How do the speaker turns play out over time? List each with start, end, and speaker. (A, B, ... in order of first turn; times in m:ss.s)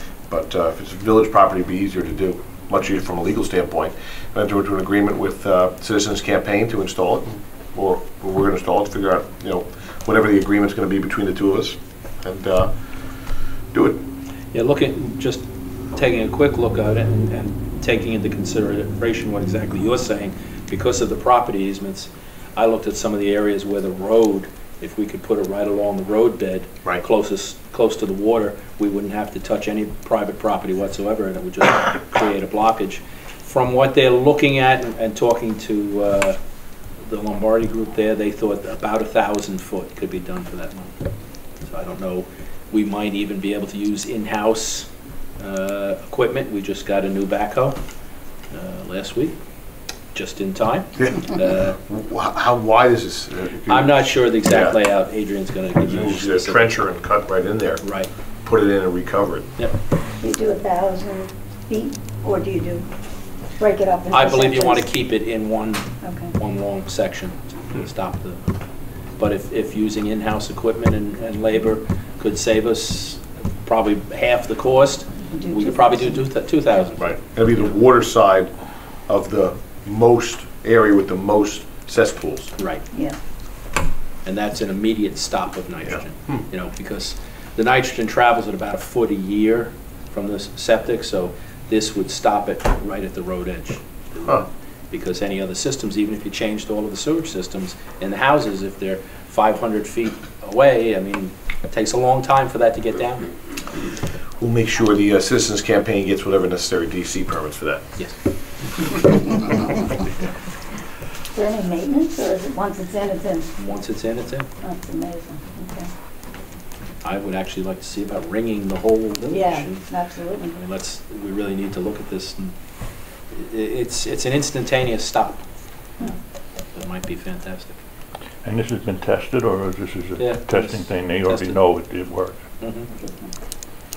0:00.3-0:12.7 A
0:13.7-0:14.0 A
0:14.5-0:36.4 B
0:37.0-0:40.9 B
0:41.6-0:44.9 B
0:45.4-0:47.8 B
0:48.5-0:49.3 B
0:50.1-0:51.8 B
0:51.0-0:54.8 A
0:53.7-0:56.8 B
0:55.8-0:57.8 A
0:57.8-0:58.1 B
0:58.4-0:59.5 A
1:00.2-1:02.8 C
1:03.6-1:04.8 C
1:04.1-1:08.4 B
1:06.0-1:06.3 C
1:09.2-1:17.2 B
1:15.3-1:16.2 C
1:17.0-1:18.5 A
1:19.0-1:22.5 A
1:22.6-1:22.8 B
1:24.2-1:43.3 B
1:25.9-1:26.4 A
1:44.4-1:47.8 A
1:51.3-1:53.5 C
1:53.6-1:54.5 B
1:54.6-1:55.9 C
1:57.0-1:59.9 B
1:59.3-2:00.6 C
2:00.5-2:02.5 B
2:03.3-2:05.4 B
2:06.7-2:07.8 B
2:08.4-2:12.4 D
2:10.2-2:11.6 B
2:12.6-2:12.9 B
2:13.0-2:13.3 C